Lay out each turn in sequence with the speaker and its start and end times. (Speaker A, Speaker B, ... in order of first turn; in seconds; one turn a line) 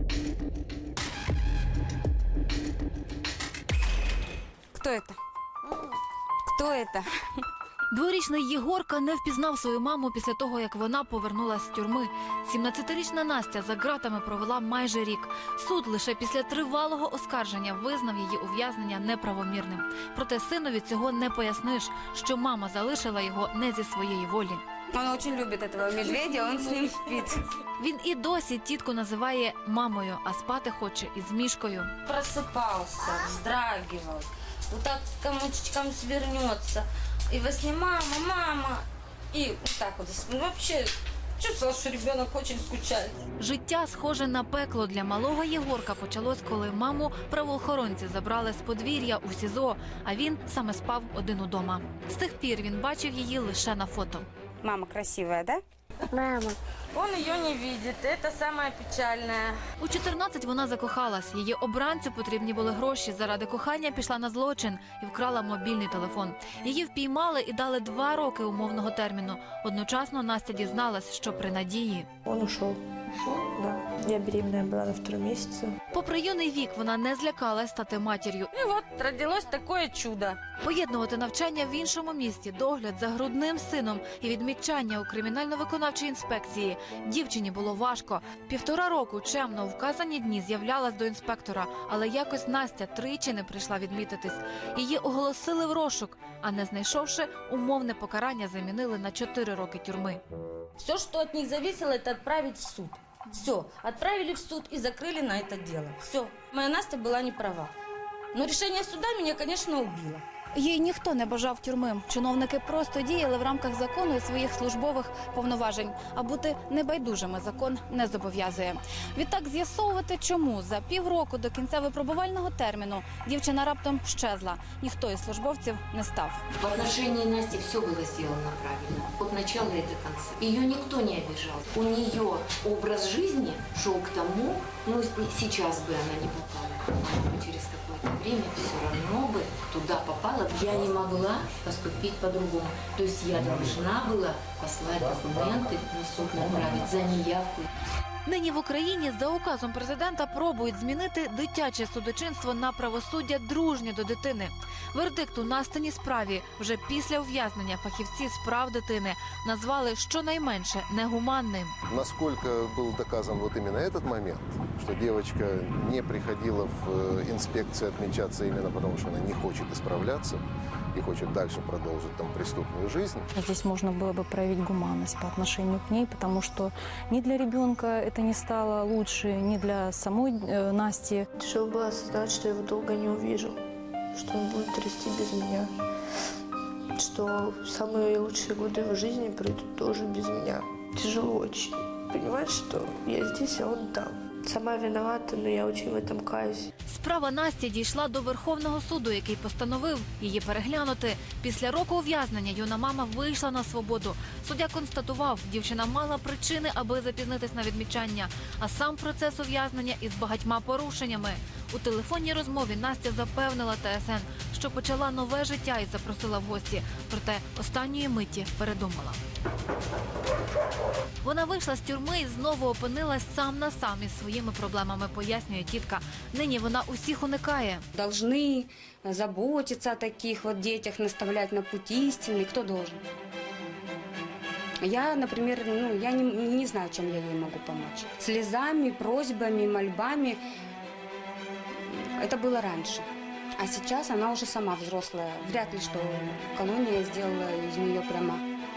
Speaker A: 4.7-5.2
Speaker A: 6.4-7.0
Speaker B: 7.9-24.6
Speaker A: 24.9-27.4
Speaker B: 27.8-31.9
Speaker C: 32.1-36.8
Speaker C: 37.3-38.8
Speaker C: 39.3-43.1
Speaker B: 43.4-54.3
Speaker A: 54.6-55.6
Speaker C: 57.0-59.5
Speaker B: 59.8-72.1
Speaker D: 72.2-75.7
Speaker B: 75.9-78.5
Speaker C: 78.5-80.3
Speaker B: 80.6-100.2
Speaker C: 100.8-107.7
Speaker C: 108.3-110.2
Speaker E: 110.5-126.4
Speaker F: 126.6-147.7
Speaker B: 148.2-161.7
Speaker G: 161.9-170.4
Speaker G: 170.9-173.3
Speaker H: 173.5-181.2
Speaker D: 181.4-183.6
Speaker D: 184.1-185.7
Speaker D: 186.9-196.7
Speaker B: 196.8-219.2
Speaker B: 221.2-227.8
Speaker A: 227.9-233.0
Speaker A: 234.8-240.4
Speaker A: 241.8-248.4